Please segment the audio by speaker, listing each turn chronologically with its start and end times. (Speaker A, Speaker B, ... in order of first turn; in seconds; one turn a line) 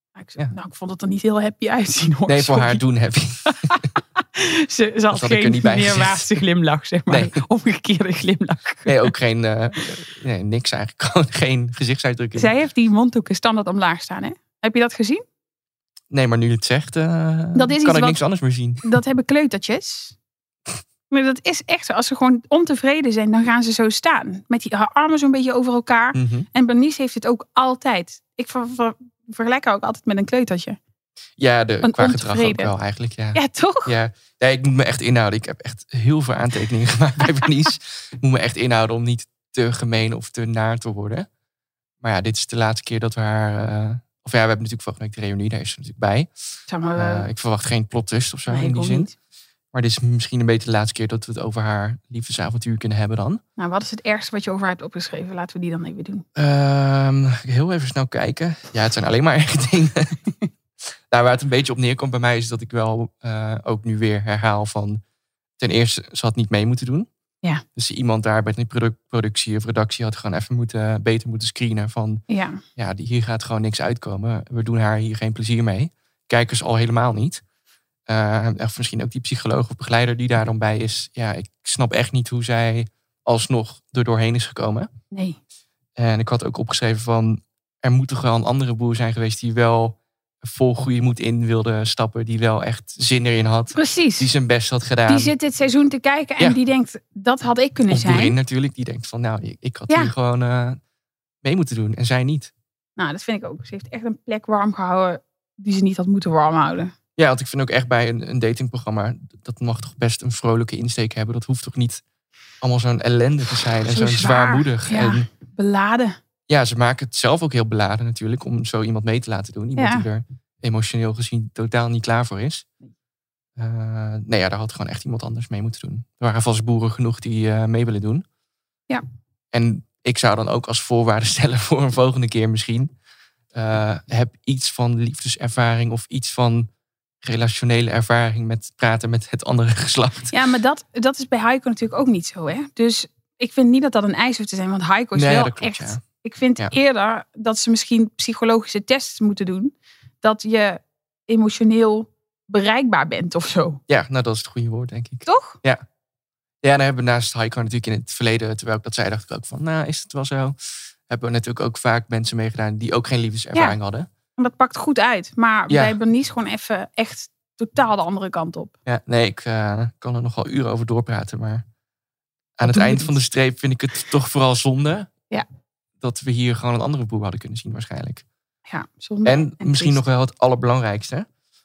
Speaker A: 0.2-2.8
Speaker B: 2.3-3.8
Speaker A: 3.5-9.1
Speaker B: 5.1-6.4
Speaker B: 7.1-7.4
Speaker B: 8.8-12.5
Speaker A: 12.3-15.2
Speaker B: 16.1-18.9
Speaker A: 17.5-18.2
Speaker A: 18.8-20.1
Speaker A: 21.1-30.8
Speaker B: 26.1-26.5
Speaker B: 31.4-41.3
Speaker A: 31.8-32.7
Speaker A: 33.3-33.9
Speaker B: 42.0-46.3
Speaker A: 46.7-47.3
Speaker B: 46.9-49.1
Speaker A: 48.5-49.1
Speaker B: 49.7-53.4
Speaker A: 53.6-56.2
Speaker B: 56.3-60.2
Speaker B: 61.1-65.0
Speaker B: 65.6-67.1
Speaker B: 67.7-72.2
Speaker A: 72.3-72.6
Speaker B: 72.8-77.4
Speaker B: 78.1-84.9
Speaker A: 85.1-85.4
Speaker B: 86.0-95.3
Speaker A: 93.7-94.3
Speaker A: 95.1-98.3
Speaker B: 97.9-100.8
Speaker B: 101.4-102.5
Speaker A: 103.0-106.9
Speaker B: 107.2-112.0
Speaker B: 112.6-115.3
Speaker A: 113.9-116.2
Speaker B: 116.5-122.7
Speaker A: 119.8-120.0
Speaker B: 123.6-128.2
Speaker B: 129.5-132.9
Speaker B: 133.5-136.7
Speaker B: 137.2-140.3
Speaker A: 140.3-153.8
Speaker B: 145.1-146.0
Speaker B: 153.9-155.8
Speaker A: 155.2-155.6
Speaker B: 156.6-164.1
Speaker A: 164.4-168.7
Speaker B: 165.7-165.9
Speaker B: 168.8-171.6
Speaker B: 172.6-175.1
Speaker A: 172.6-173.1
Speaker B: 176.0-178.2
Speaker A: 178.7-180.0
Speaker B: 179.2-181.3